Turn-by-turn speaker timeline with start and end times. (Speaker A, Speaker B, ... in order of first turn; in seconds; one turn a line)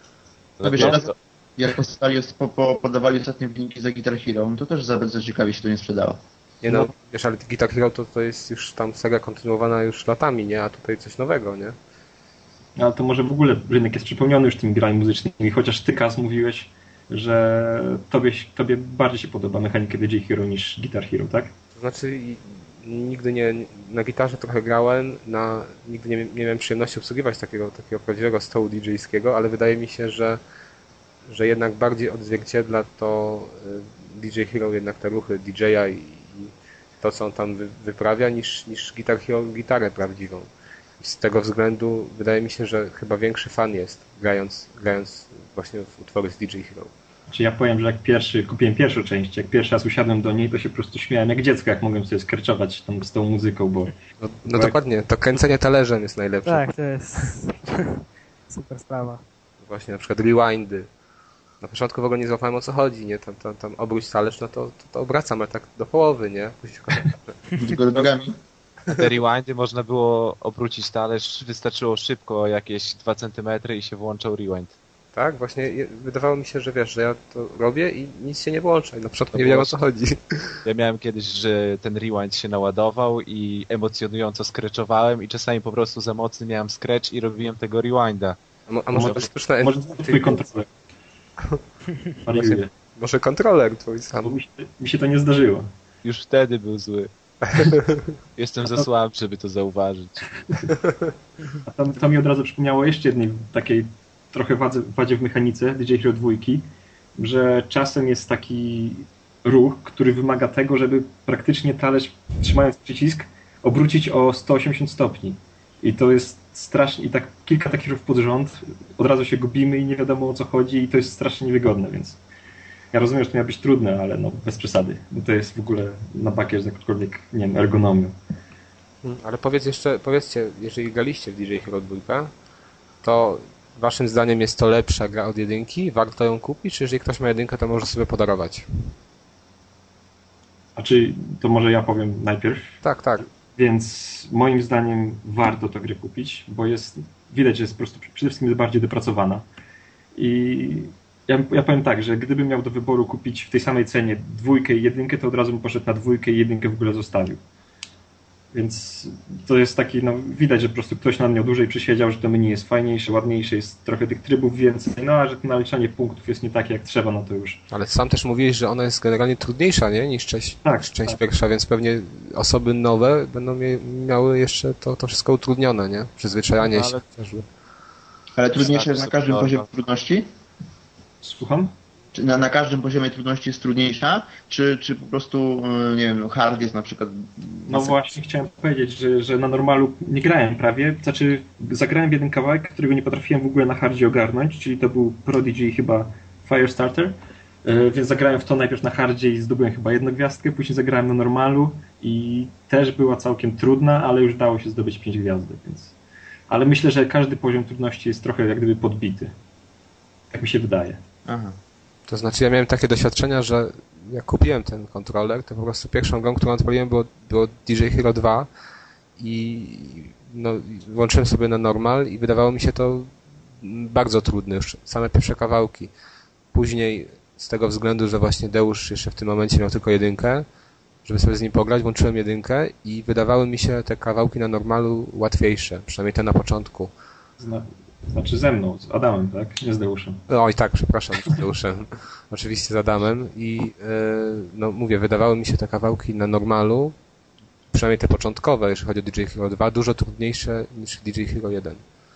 Speaker A: 0.6-1.1
Speaker B: 0.6-6.2
Speaker C: 6.6-11.7
Speaker D: 12.8-21.5
Speaker C: 21.8-30.4
Speaker C: 31.3-40.5
Speaker C: 41.0-46.9
Speaker D: 47.3-53.9
Speaker C: 54.2-56.6
Speaker E: 56.5-59.2
Speaker C: 59.6-60.9
Speaker C: 61.6-68.1
Speaker B: 67.5-68.3
Speaker A: 68.9-74.7
Speaker C: 75.1-80.6
Speaker A: 79.3-79.8
Speaker A: 80.6-88.4
Speaker C: 88.7-90.4
Speaker D: 88.9-90.7
Speaker D: 92.2-92.7
Speaker C: 92.3-94.3
Speaker D: 94.2-95.7
Speaker A: 96.0-97.1
Speaker A: 98.3-100.3
Speaker C: 100.8-101.1
Speaker D: 101.6-122.2
Speaker D: 122.9-128.1
Speaker C: 129.0-132.3
Speaker C: 133.0-138.9
Speaker D: 140.8-142.8
Speaker C: 142.8-143.3
Speaker D: 143.5-149.4
Speaker D: 150.1-157.4
Speaker D: 158.5-167.6
Speaker C: 167.7-177.4
Speaker D: 170.6-171.2
Speaker A: 176.6-177.0
Speaker B: 178.3-180.3
Speaker A: 178.5-179.7
Speaker D: 181.2-181.7
Speaker B: 182.1-188.1
Speaker D: 187.7-205.9
Speaker D: 206.5-209.3
Speaker D: 210.3-211.0
Speaker B: 211.2-211.6
Speaker C: 212.1-218.5
Speaker C: 219.2-225.9
Speaker C: 226.5-230.4
Speaker C: 231.0-236.9
Speaker D: 237.4-240.2
Speaker C: 240.3-246.9
Speaker C: 247.7-251.8